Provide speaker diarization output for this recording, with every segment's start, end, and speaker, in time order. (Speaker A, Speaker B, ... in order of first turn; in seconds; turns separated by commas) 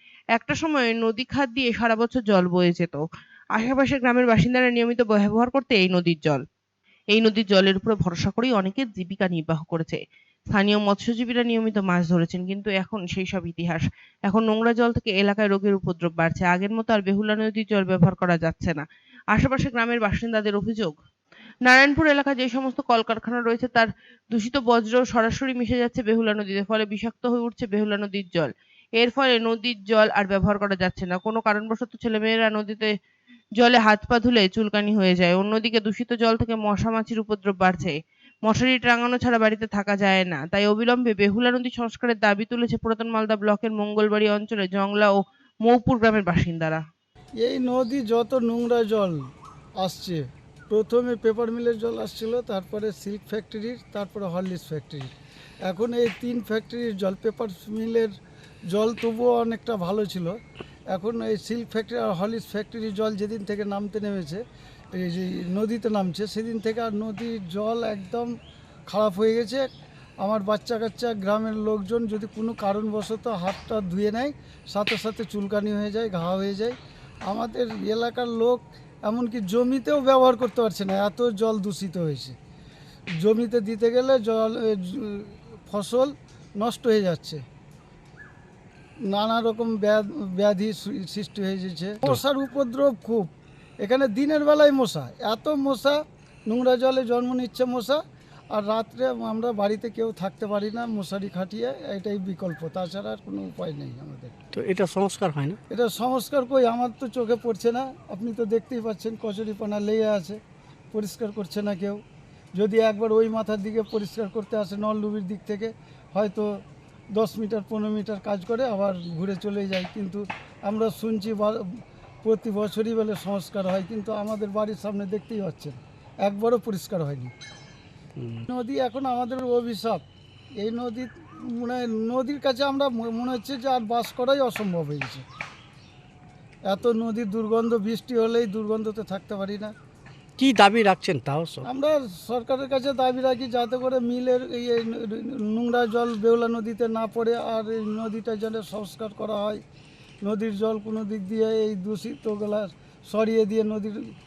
Speaker A: 0.3-6.4, Speaker A: 7.1-10.0, Speaker A: 10.5-20.9, Speaker A: 21.6-32.9, Speaker A: 33.6-37.9, Speaker A: 38.4-46.8, Speaker B: 47.4-49.2, Speaker B: 49.8-55.1, Speaker B: 55.7-58.1, Speaker B: 58.7-60.4, Speaker B: 60.9-68.3, Speaker B: 68.9-69.7, Speaker B: 70.2-76.7, Speaker B: 77.3-82.3, Speaker B: 83.2-87.4, Speaker B: 89.1-93.3, Speaker B: 93.8-98.0, Speaker B: 98.5-104.4, Speaker C: 104.5-105.6, Speaker B: 105.7-110.4, Speaker B: 110.9-112.0, Speaker B: 112.5-116.5, Speaker B: 117.1-121.6, Speaker B: 122.2-127.3, Speaker C: 128.2-128.4, Speaker B: 128.5-130.0, Speaker B: 130.6-135.2, Speaker B: 136.7-139.7, Speaker C: 140.4-141.7, Speaker B: 141.6-149.6, Speaker B: 150.2-154.1